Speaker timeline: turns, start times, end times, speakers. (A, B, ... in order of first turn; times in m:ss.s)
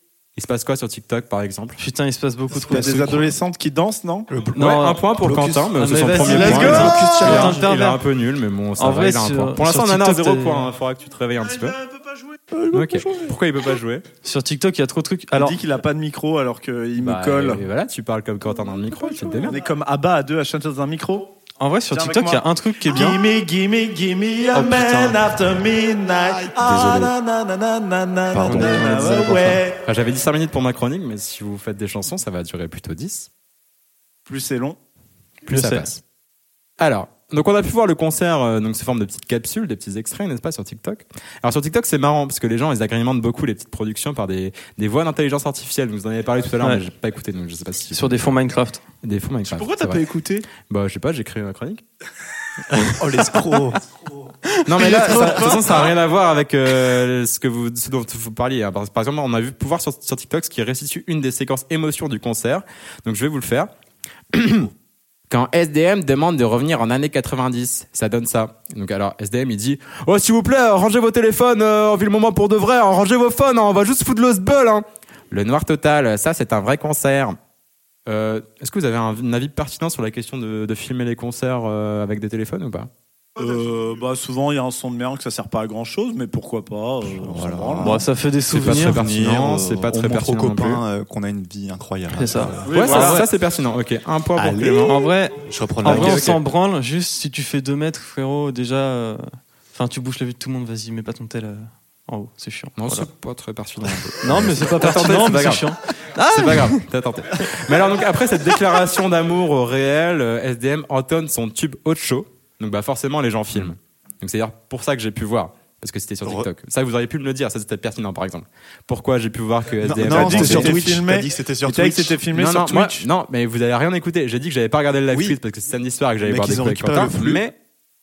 0:00.4-0:01.8 A
0:01.8-0:03.3 B
0:02.7-0:04.3 C
0:04.3-0:04.6 D
0:04.5-0:05.0 B
0:04.5-0:11.8 A
0:05.2-0:07.7 D
0:05.7-0:08.0 B
0:06.2-0:07.5 C
0:08.8-0:10.7 B
0:11.4-0:13.3 E
0:12.7-0:14.1 A
0:14.2-0:15.6 B
0:15.3-0:17.6 C
0:17.0-0:19.6 A
0:19.1-0:19.5 E
0:19.4-0:21.3 C
0:21.6-0:23.2 B
0:21.9-0:29.8 C
0:24.5-0:25.3 B
0:26.6-0:27.1 D
0:28.3-0:29.4 D
0:28.5-0:29.5 B
0:29.1-0:33.3 A
0:34.2-0:34.8 C
0:35.5-0:35.8 B
0:35.5-0:36.0 A
0:36.8-0:48.4 A
0:46.6-0:46.8 B
0:47.9-0:48.8 B
0:49.0-0:51.8 A
0:49.4-0:50.5 E
0:52.7-0:53.4 B
0:53.0-0:53.8 D
0:54.6-1:03.7 A
0:54.7-0:55.5 B
0:54.8-0:55.9 E
1:04.3-1:04.7 A
1:05.3-1:17.4 A
1:18.0-1:22.9 A
1:23.4-1:28.0 C
1:27.2-1:32.7 D
1:27.8-1:29.0 B
1:28.5-1:30.8 A
1:32.1-1:33.3 B
1:32.7-1:33.2 C
1:32.7-1:35.0 A
1:34.4-1:36.4 D
1:34.8-1:43.1 B
1:35.8-1:36.4 A
1:42.8-1:45.7 A
1:44.2-1:46.8 B
1:46.2-2:00.9 A
1:56.2-1:56.5 D
1:59.8-2:02.2 D
2:00.0-2:03.1 C
2:02.3-2:07.6 A
2:05.1-2:05.4 D
2:06.2-2:07.4 D